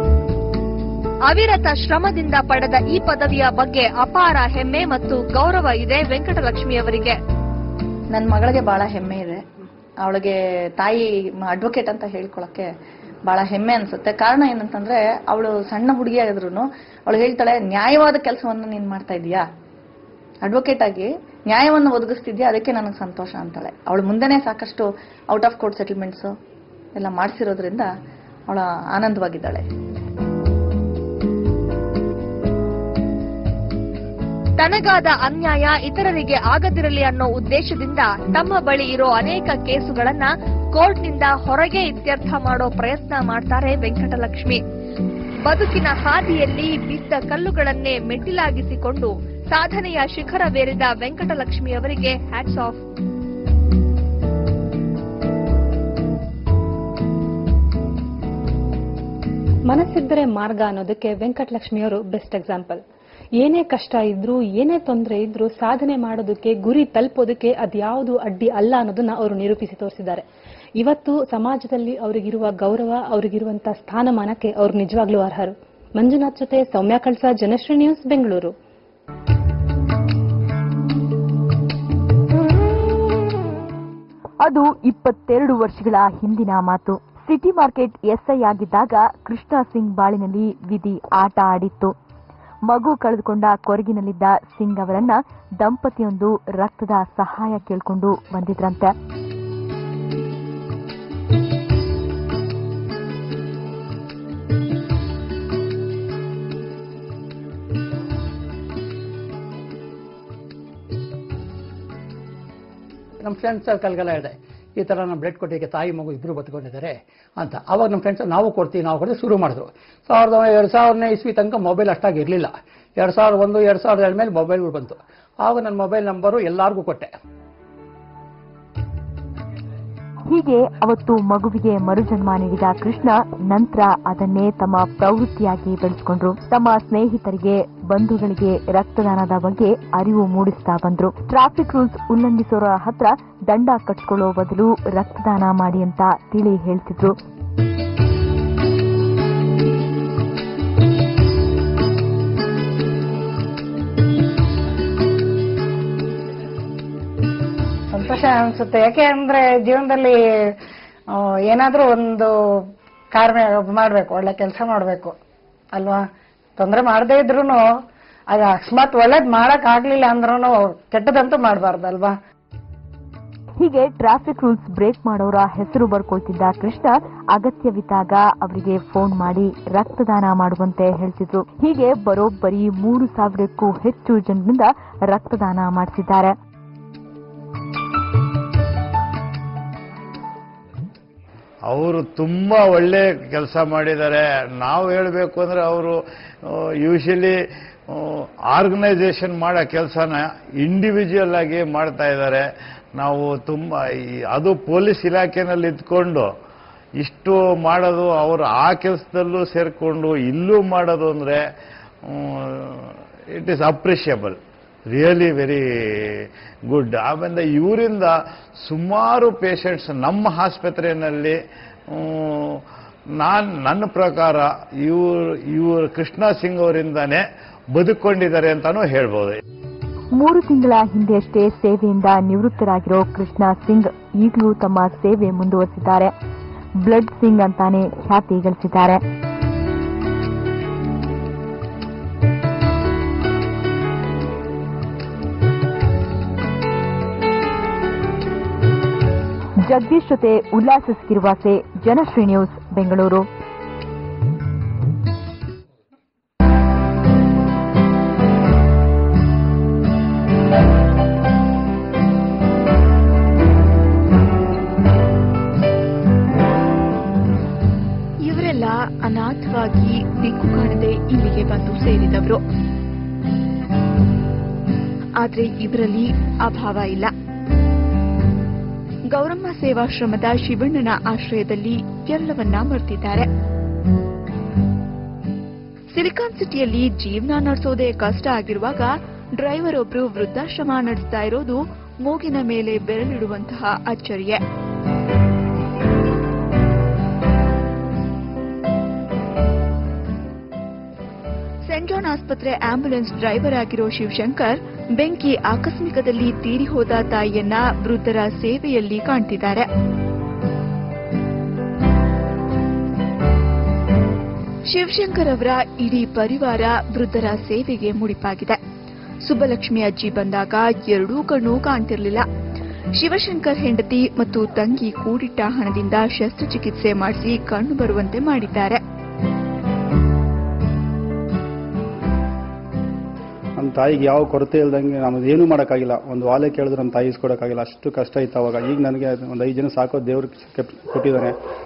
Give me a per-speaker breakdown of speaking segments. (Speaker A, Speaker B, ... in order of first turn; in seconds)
Speaker A: 1.3-7.2, 34.6-44.6, 45.5-52.8
Speaker B: 8.1-9.4, 10.0-12.7, 13.3-19.5, 20.4-26.4, 27.0-27.9, 28.5-29.6
Speaker C: 59.7-62.8, 63.4-70.2, 70.8-78.5
Speaker D: 84.4-91.9, 92.7-99.0, 130.3-147.2, 173.6-186.3, 230.1-236.1, 236.8-239.0, 249.6-253.3
Speaker E: 113.2-127.1
Speaker F: 157.9-160.2, 161.1-162.3, 163.1-165.2, 165.7-167.7, 168.3-172.2
Speaker G: 191.7-197.4, 197.9-202.4, 203.0-206.3, 207.0-211.4, 212.1-214.4, 214.9-221.4, 221.9-222.6, 223.1-229.4
Speaker H: 268.2-272.4, 275.2-277.1, 279.1-283.3, 285.9-294.4, 301.7-309.7, 314.7-318.6, 319.2-322.3, 323.0-328.8
Speaker I: 333.6-341.4